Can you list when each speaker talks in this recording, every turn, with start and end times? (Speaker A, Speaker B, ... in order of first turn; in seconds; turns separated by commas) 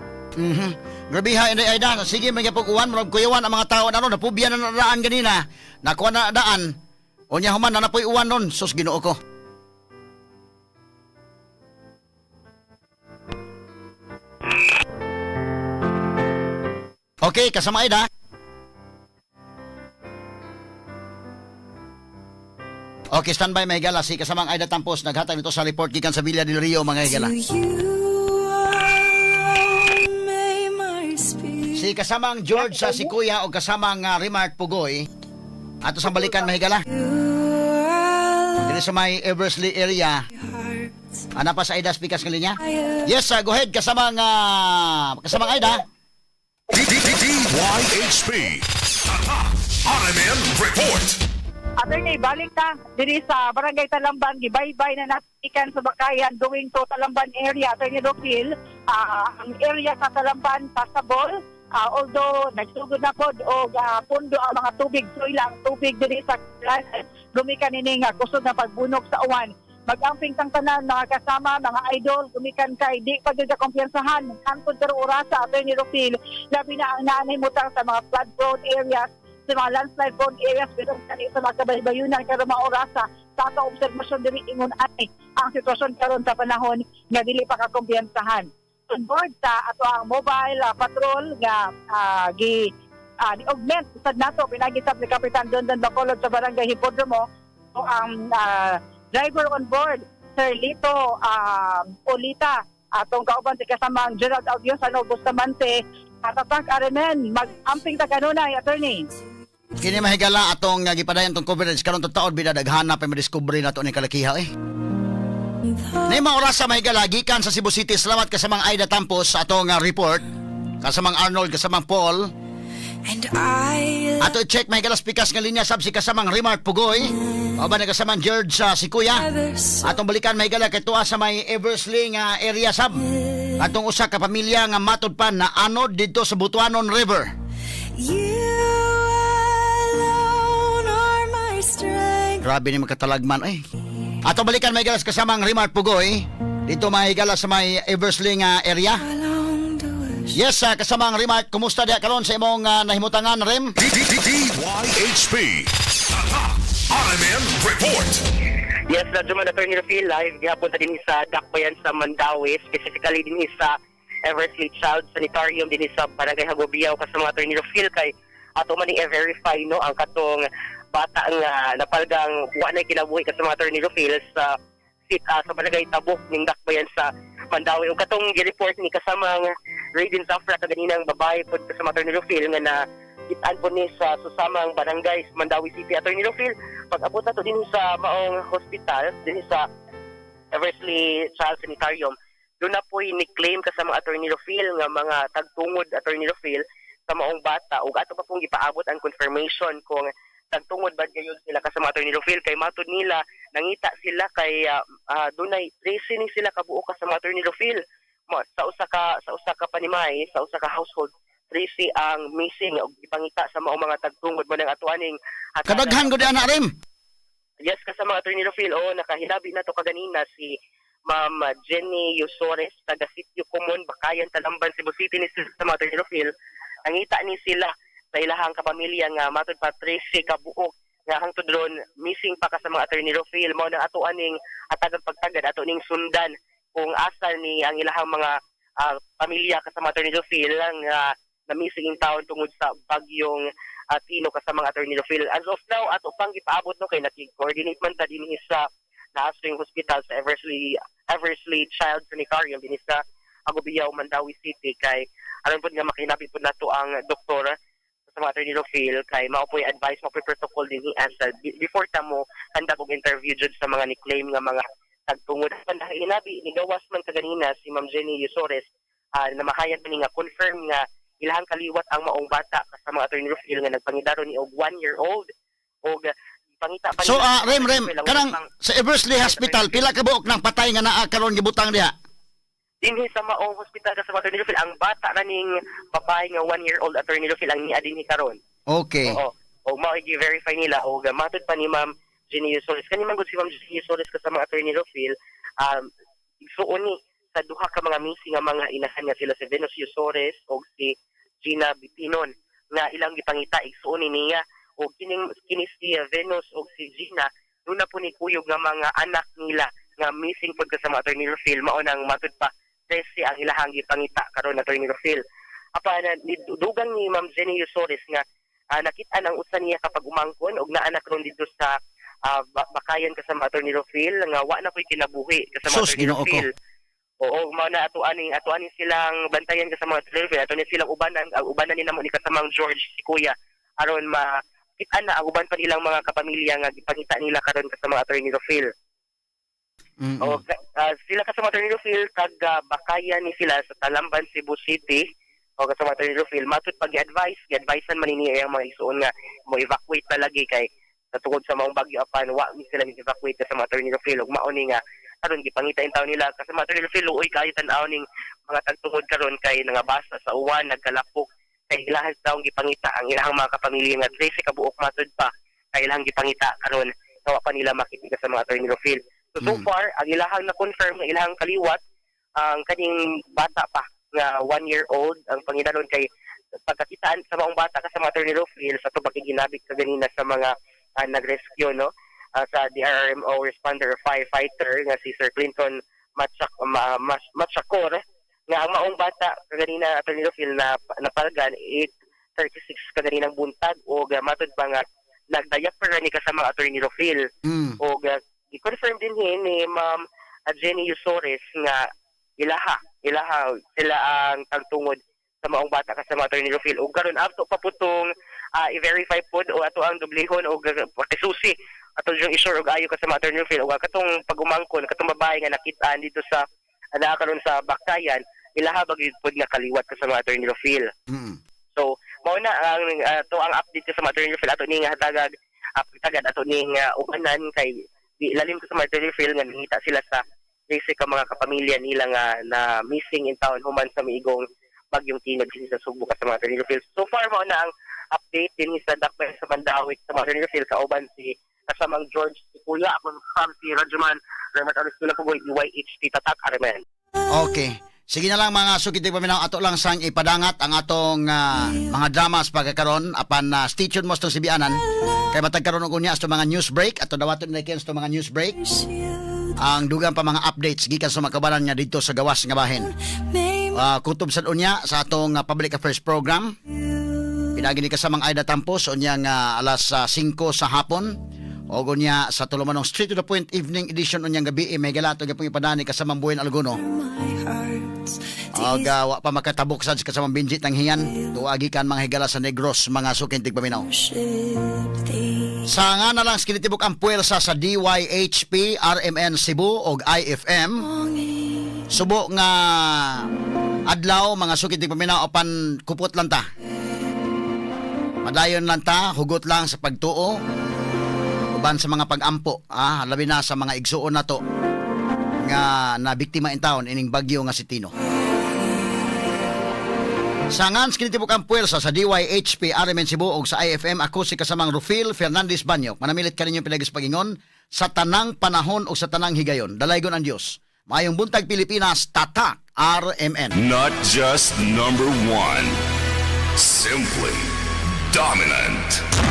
Speaker A: 0.4-6.7, Speaker A: 7.3-9.2, Speaker A: 17.2-18.0, Speaker A: 23.1-27.3, Speaker B: 27.1-31.9, Speaker A: 31.7-35.1, Speaker A: 35.8-36.8, Speaker B: 36.9-38.7, Speaker A: 38.6-40.2, Speaker B: 40.4-40.9, Speaker A: 41.4-45.8, Speaker B: 42.7-43.0, Speaker C: 46.7-51.2, Speaker D: 51.8-92.7, Speaker D: 93.2-109.1, Speaker A: 109.8-114.5, Speaker B: 115.7-116.0, Speaker A: 116.0-120.2, Speaker A: 120.8-122.3, Speaker B: 123.0-124.3, Speaker A: 124.2-129.3, Speaker B: 129.2-129.9, Speaker A: 129.8-133.1, Speaker B: 133.2-133.5, Speaker A: 133.6-137.3, Speaker B: 138.0-142.4, Speaker A: 142.4-143.6, Speaker A: 144.2-149.0, Speaker B: 149.0-150.3, Speaker A: 150.3-153.7, Speaker C: 153.9-155.7, Speaker C: 156.3-158.2, Speaker E: 158.9-174.5, Speaker E: 175.1-189.7, Speaker E: 190.5-216.4, Speaker A: 215.7-216.7, Speaker E: 217.7-220.6, Speaker E: 221.1-226.3, Speaker E: 226.8-257.5, Speaker E: 258.1-268.7, Speaker E: 269.2-275.3, Speaker E: 275.9-278.4, Speaker A: 277.0-281.9, Speaker E: 279.2-279.9, Speaker E: 282.8-288.4, Speaker A: 288.7-289.2, Speaker E: 289.1-295.9, Speaker E: 296.4-315.2, Speaker E: 315.8-318.2, Speaker E: 318.7-321.7, Speaker E: 322.2-326.5, Speaker A: 325.7-326.4, Speaker E: 327.2-334.3, Speaker E: 334.8-338.7, Speaker A: 340.0-340.4, Speaker E: 340.2-345.0, Speaker E: 345.6-371.8, Speaker A: 369.4-369.7, Speaker E: 372.4-376.1, Speaker E: 376.7-397.3, Speaker A: 397.4-397.8, Speaker E: 397.8-401.9, Speaker E: 402.4-416.4, Speaker E: 416.9-420.9, Speaker A: 421.1-421.4, Speaker E: 421.7-446.8, Speaker A: 447.3-458.6, Speaker B: 458.6-459.5, Speaker A: 459.6-462.9, Speaker B: 463.2-463.8, Speaker A: 463.7-466.5, Speaker B: 466.9-467.5, Speaker A: 467.5-471.1, Speaker A: 471.7-476.8, Speaker B: 476.8-478.9, Speaker A: 478.6-483.9, Speaker B: 483.8-485.6, Speaker A: 485.7-490.9, Speaker B: 491.0-491.8, Speaker A: 491.9-493.3, Speaker A: 493.9-496.4, Speaker A: 498.2-500.4, Speaker A: 501.5-504.4, Speaker A: 505.4-507.9, Speaker A: 510.5-523.6, Speaker C: 523.5-525.8, Speaker C: 526.6-527.5, Speaker C: 528.1-529.0